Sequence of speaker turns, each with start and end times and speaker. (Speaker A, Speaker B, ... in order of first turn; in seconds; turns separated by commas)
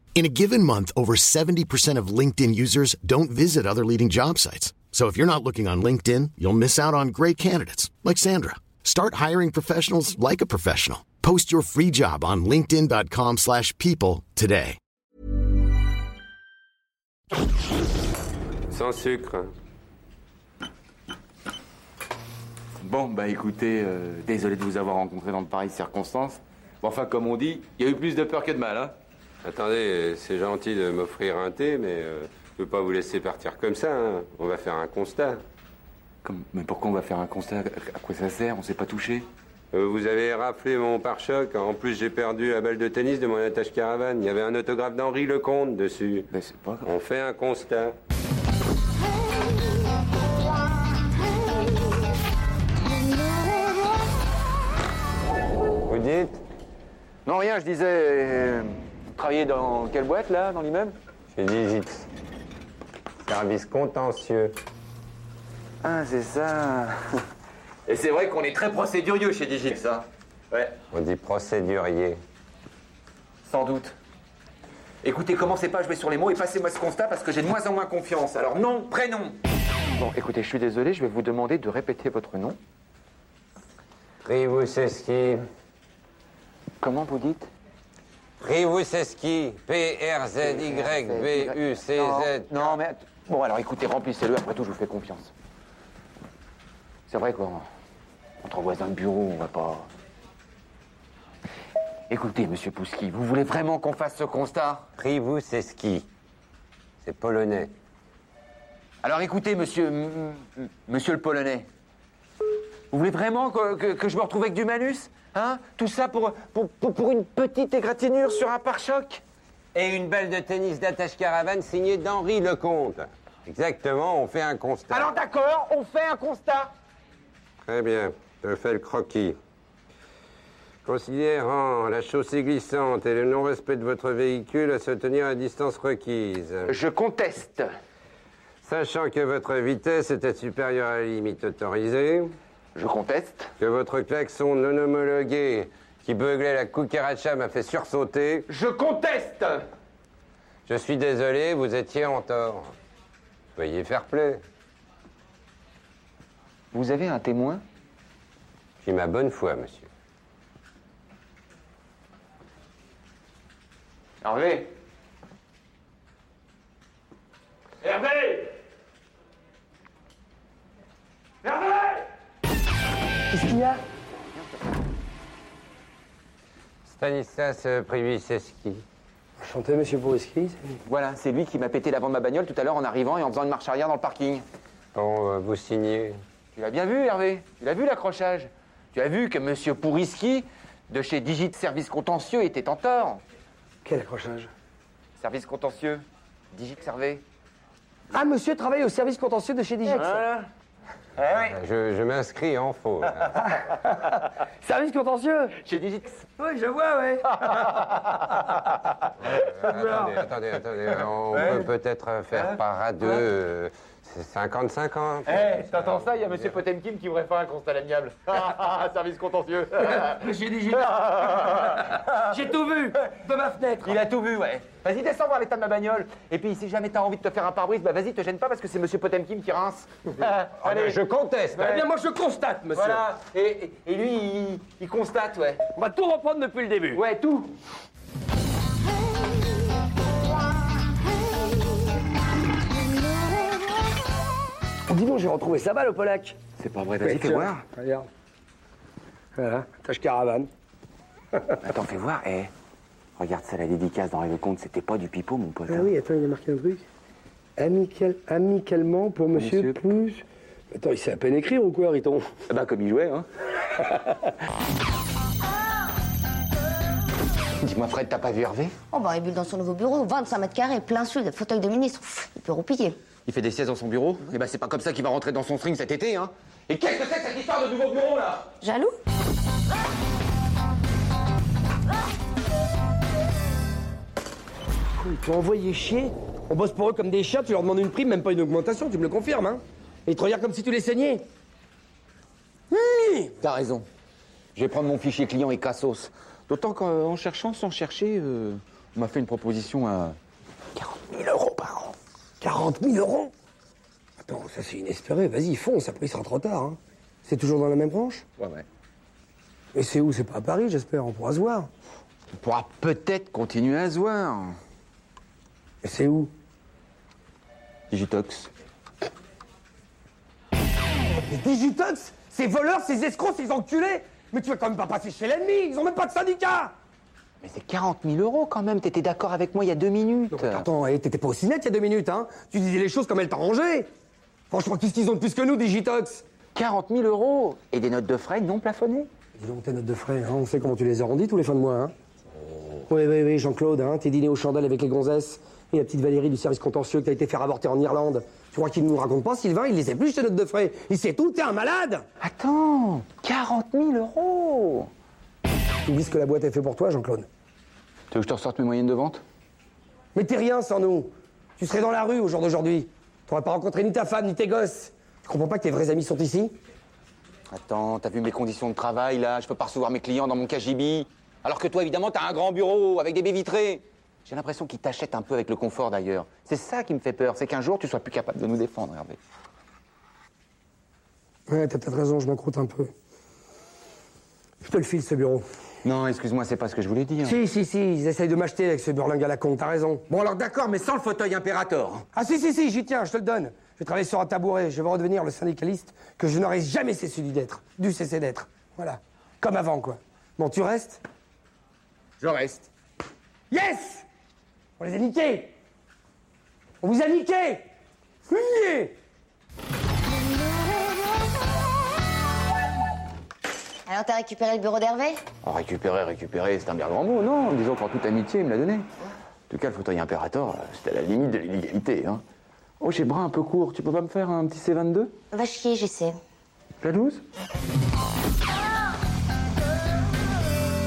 Speaker A: 0.1-14.8, Speaker B: 18.7-19.5, Speaker C: 22.8-29.0, Speaker B: 29.4-35.4, Speaker C: 36.2-39.3, Speaker B: 39.7-46.3, Speaker C: 46.3-46.9, Speaker B: 46.9-47.9, Speaker B: 55.9-56.4, Speaker C: 57.2-61.0, Speaker B: 61.3-62.1, Speaker B: 63.2-64.5, Speaker C: 65.8-67.2, Speaker C: 67.9-70.8, Speaker B: 70.9-72.2, Speaker C: 73.5-74.0, Speaker C: 75.0-79.4, Speaker C: 80.0-82.6, Speaker B: 84.2-85.4, Speaker C: 86.8-87.5, Speaker B: 88.4-92.8, Speaker C: 90.4-95.3, Speaker C: 97.1-97.7, Speaker C: 98.4-99.9, Speaker C: 102.1-104.9, Speaker B: 105.0-106.1, Speaker B: 107.0-107.7, Speaker C: 109.0-111.7, Speaker C: 112.9-119.2, Speaker B: 119.7-125.1, Speaker C: 124.9-126.7, Speaker B: 127.6-129.4, Speaker B: 130.8-136.7, Speaker C: 136.7-137.7, Speaker B: 138.6-142.3, Speaker C: 142.8-143.5, Speaker B: 143.6-148.5, Speaker C: 148.5-149.7, Speaker B: 150.7-152.7, Speaker B: 153.6-154.4, Speaker C: 156.7-157.6, Speaker B: 158.8-159.9, Speaker C: 164.2-164.7, Speaker C: 167.8-168.4, Speaker C: 171.5-171.9, Speaker D: 173.3-173.8, Speaker B: 176.8-178.8, Speaker D: 179.4-180.8, Speaker C: 180.9-184.4, Speaker B: 184.9-186.2, Speaker C: 186.5-193.2, Speaker D: 193.8-194.5, Speaker C: 195.2-197.2, Speaker D: 198.1-200.2, Speaker C: 199.9-200.4, Speaker C: 201.2-201.6, Speaker B: 201.4-203.4, Speaker D: 203.7-205.5, Speaker C: 205.6-206.3, Speaker D: 206.4-207.2, Speaker C: 207.3-208.0, Speaker B: 209.3-216.0, Speaker D: 209.7-210.1, Speaker C: 211.3-211.7, Speaker C: 212.4-213.2, Speaker C: 215.3-220.2, Speaker D: 220.0-220.7, Speaker C: 220.8-221.8, Speaker D: 221.8-224.0, Speaker C: 223.8-231.0, Speaker B: 230.7-231.7, Speaker C: 231.5-231.8, Speaker D: 231.6-233.1, Speaker C: 232.7-235.7, Speaker D: 235.8-237.0, Speaker C: 236.9-237.5, Speaker D: 244.9-246.4, Speaker C: 246.6-247.6, Speaker D: 247.0-248.1, Speaker D: 249.4-250.5, Speaker C: 251.6-252.5, Speaker C: 253.2-255.9, Speaker D: 255.7-256.8, Speaker D: 257.6-262.2, Speaker C: 259.3-259.8, Speaker C: 262.5-263.3, Speaker C: 267.6-268.7, Speaker E: 268.9-273.0, Speaker C: 273.2-278.5, Speaker E: 278.6-279.0, Speaker D: 285.0-291.2, Speaker C: 292.7-293.9, Speaker C: 294.6-300.2, Speaker C: 300.8-301.9, Speaker D: 302.4-303.3, Speaker D: 304.2-308.2, Speaker C: 308.4-308.6, Speaker D: 309.7-311.7, Speaker C: 312.3-314.6, Speaker D: 315.8-316.3, Speaker C: 317.9-318.5, Speaker D: 321.3-326.7, Speaker C: 327.4-330.7, Speaker D: 330.3-333.9, Speaker D: 334.5-336.2, Speaker C: 336.5-339.1, Speaker D: 339.4-341.9, Speaker D: 342.9-352.0, Speaker C: 352.2-354.9, Speaker D: 355.9-357.3, Speaker C: 358.1-359.2, Speaker D: 360.1-366.5, Speaker C: 367.5-379.2, Speaker D: 381.5-382.9, Speaker D: 384.6-385.4, Speaker C: 385.8-387.4, Speaker D: 387.2-390.1, Speaker C: 390.1-392.1, Speaker D: 392.1-401.0, Speaker C: 402.2-402.7, Speaker D: 403.5-404.0, Speaker D: 404.8-405.5, Speaker D: 406.8-407.6, Speaker D: 408.3-408.9, Speaker E: 413.9-415.2, Speaker C: 415.4-418.9, Speaker C: 419.5-422.2, Speaker C: 422.8-425.1, Speaker E: 425.3-426.1, Speaker C: 426.8-427.2